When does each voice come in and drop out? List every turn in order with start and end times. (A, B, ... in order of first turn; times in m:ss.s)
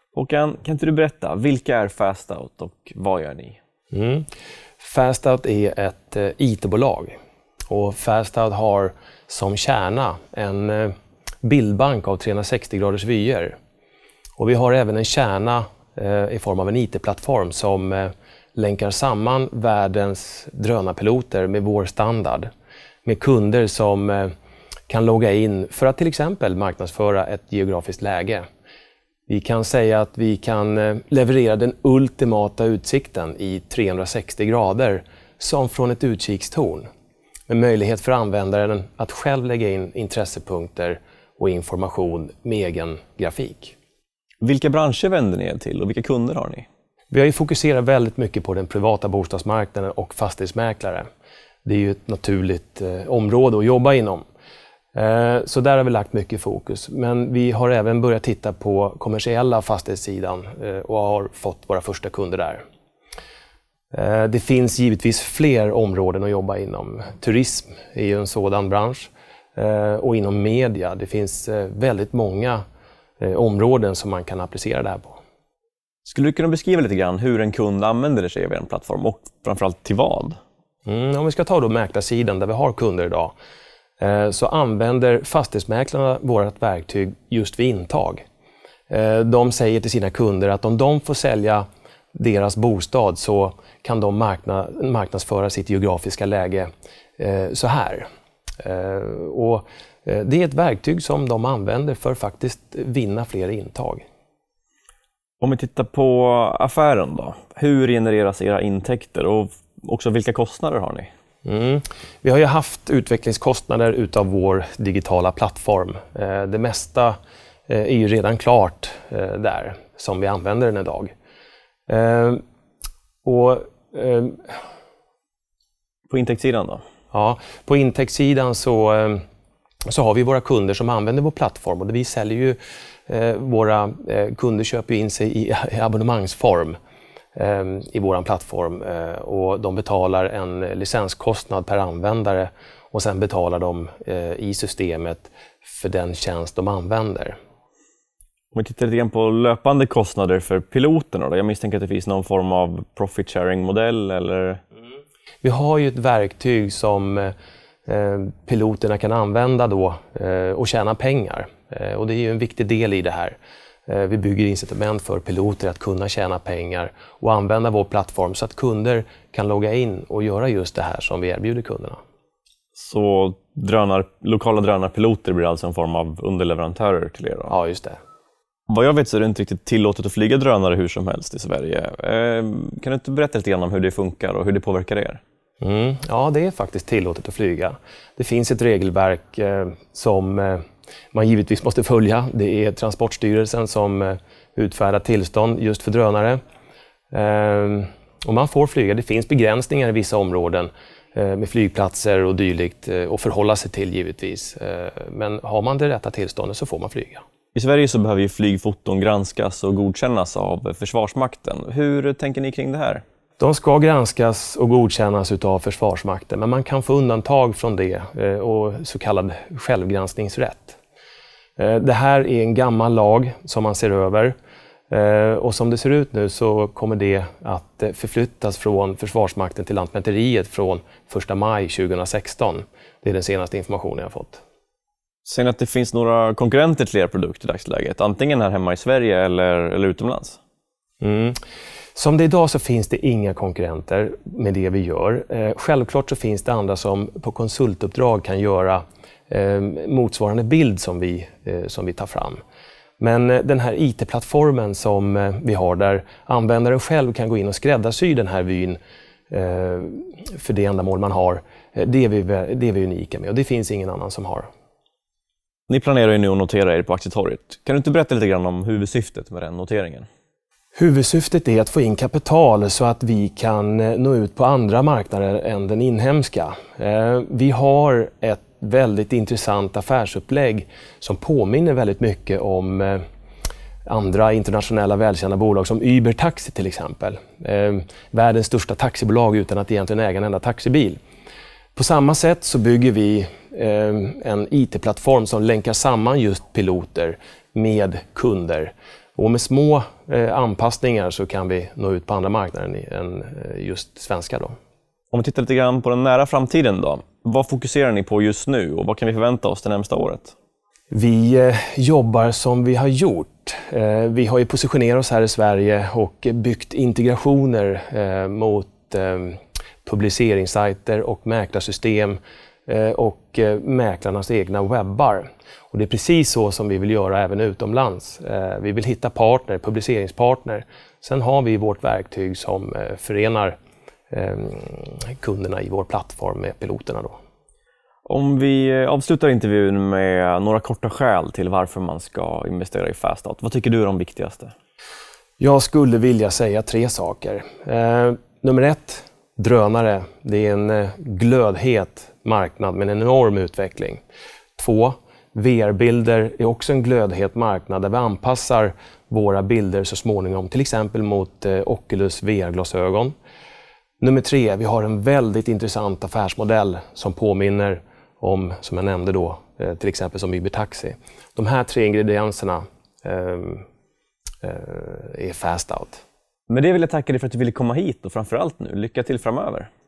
0:00.1-0:03.6 A
0:03.9-0:04.3 B
0:04.8-0:07.1 B
0:07.7-0:13.6 B
0:14.4-0:22.5 B
0:23.0-0:24.3 B
0:24.9-0:28.4 B
0:29.3-0:36.8 B
0:37.5-0:43.7 B
0:44.4-0:46.6 A
0:47.1-0:51.0 B
0:51.6-0:54.2 B
0:54.9-1:02.6 B
1:03.9-1:12.6 B
1:13.2-1:15.2 B
1:16.0-1:20.4 A
1:20.8-1:23.3 B
1:24.0-1:28.2 B
1:28.9-1:38.0 B
1:38.6-1:44.0 B
1:45.4-1:51.1 A
1:51.4-2:01.1 B
2:01.9-2:02.4 B
2:03.2-2:04.6 B
2:06.1-2:06.8 A
2:07.1-2:09.2 B
2:09.9-2:16.8 B
2:17.3-2:27.4 B
2:28.5-2:34.6 A
2:35.4-2:37.3 B
2:37.9-2:52.0 B
2:52.8-2:57.5 A
2:57.5-2:58.0 B
2:58.7-3:05.2 A
3:05.6-3:16.4 B
3:17.1-3:27.2 B
3:27.5-3:33.0 A
3:33.4-3:40.8 B
3:41.6-3:44.3 B
3:44.9-3:54.4 B
3:55.2-4:00.4 A
4:01.0-4:01.4 B
4:01.9-4:12.4 B
4:13.0-4:18.8 B
4:19.3-4:24.5 B
4:25.7-4:30.1 A
4:30.7-4:43.0 B
4:43.8-4:51.0 B
4:51.7-5:04.6 B
5:05.1-5:10.3 A
5:10.9-5:33.6 B
5:34.1-5:37.2 B
5:38.0-5:44.5 A
5:45.4-5:54.0 B
5:54.6-6:03.1 B
6:04.0-6:13.6 B
6:14.4-6:16.0 B
6:16.5-6:19.7 A